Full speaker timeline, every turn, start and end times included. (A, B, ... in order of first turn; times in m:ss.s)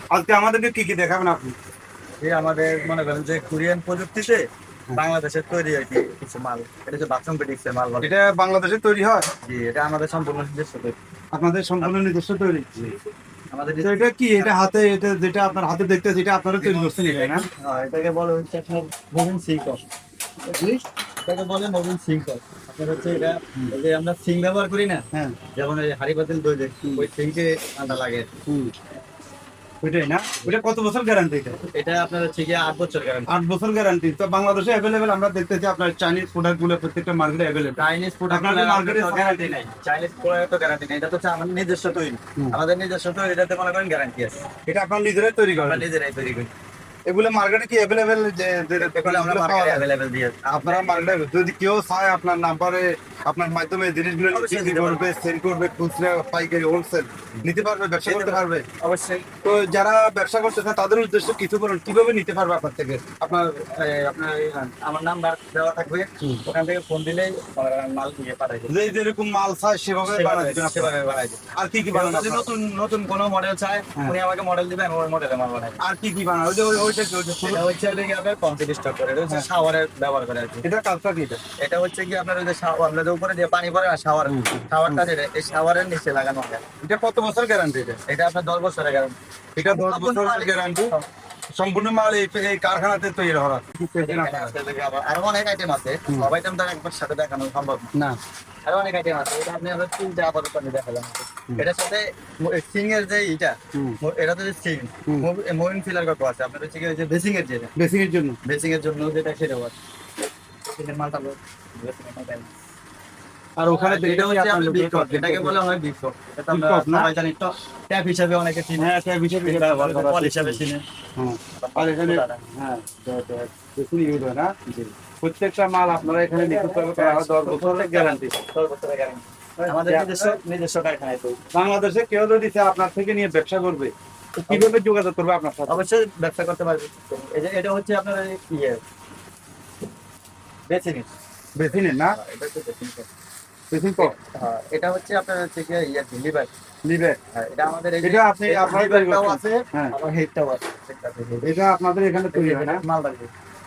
0:00.1-0:01.5 A
0:02.2-0:04.4 B
0:04.9-0:08.1 B
0:08.0-0:09.2 A
0:09.4-0:11.0 B
0:11.3-0:12.9 A
0:13.5-0:14.6 B
0:13.8-0:17.4 A
0:16.6-0:19.8 B
0:20.5-0:20.8 A
0:21.2-0:25.0 B
0:25.6-0:28.3 B
0:26.8-0:27.1 A
0:28.5-0:28.7 A
0:29.8-0:31.6 A
0:31.7-0:33.3 B
0:33.3-0:39.6 A
0:37.8-0:44.4 B
0:44.7-0:45.9 A
0:45.6-0:46.5 B
0:47.1-0:49.8 A
0:48.8-0:51.1 B
0:50.5-0:58.6 A
0:54.3-0:55.1 B
0:58.0-0:59.3 B
0:59.4-1:03.4 A
1:03.3-1:08.9 B
1:08.7-1:10.9 A
1:10.0-1:11.4 B
1:11.5-1:12.5 A
1:11.9-1:15.8 B
1:15.8-1:17.6 A
1:17.4-1:20.6 B
1:20.6-1:21.4 A
1:21.6-1:26.6 B
1:24.2-1:25.0 A
1:26.8-1:28.0 A
1:28.1-1:29.1 B
1:29.6-1:30.9 A
1:29.7-1:31.0 B
1:31.6-1:34.5 A
1:34.0-1:37.9 B
1:38.6-1:47.7 B
1:47.8-1:48.4 A
1:48.4-1:49.7 B
1:50.6-1:52.5 B
1:53.6-1:55.6 A
1:53.7-1:58.9 B
1:56.5-1:57.1 A
1:58.8-2:00.6 A
1:59.4-2:00.8 B
2:01.2-2:04.5 A
2:01.6-2:02.4 B
2:05.2-2:08.3 A
2:06.1-2:11.4 B
2:09.6-2:10.4 A
2:11.5-2:13.9 A
2:14.4-2:14.7 B
2:14.5-2:15.8 A
2:15.7-2:18.8 B
2:20.7-2:21.1 B
2:21.6-2:22.2 A
2:21.7-2:23.1 B
2:23.7-2:24.1 A
2:24.0-2:26.5 B
2:26.8-2:27.2 A
2:27.3-2:31.5 B
2:28.0-2:29.9 A
2:31.4-2:32.8 A
2:32.3-2:33.3 B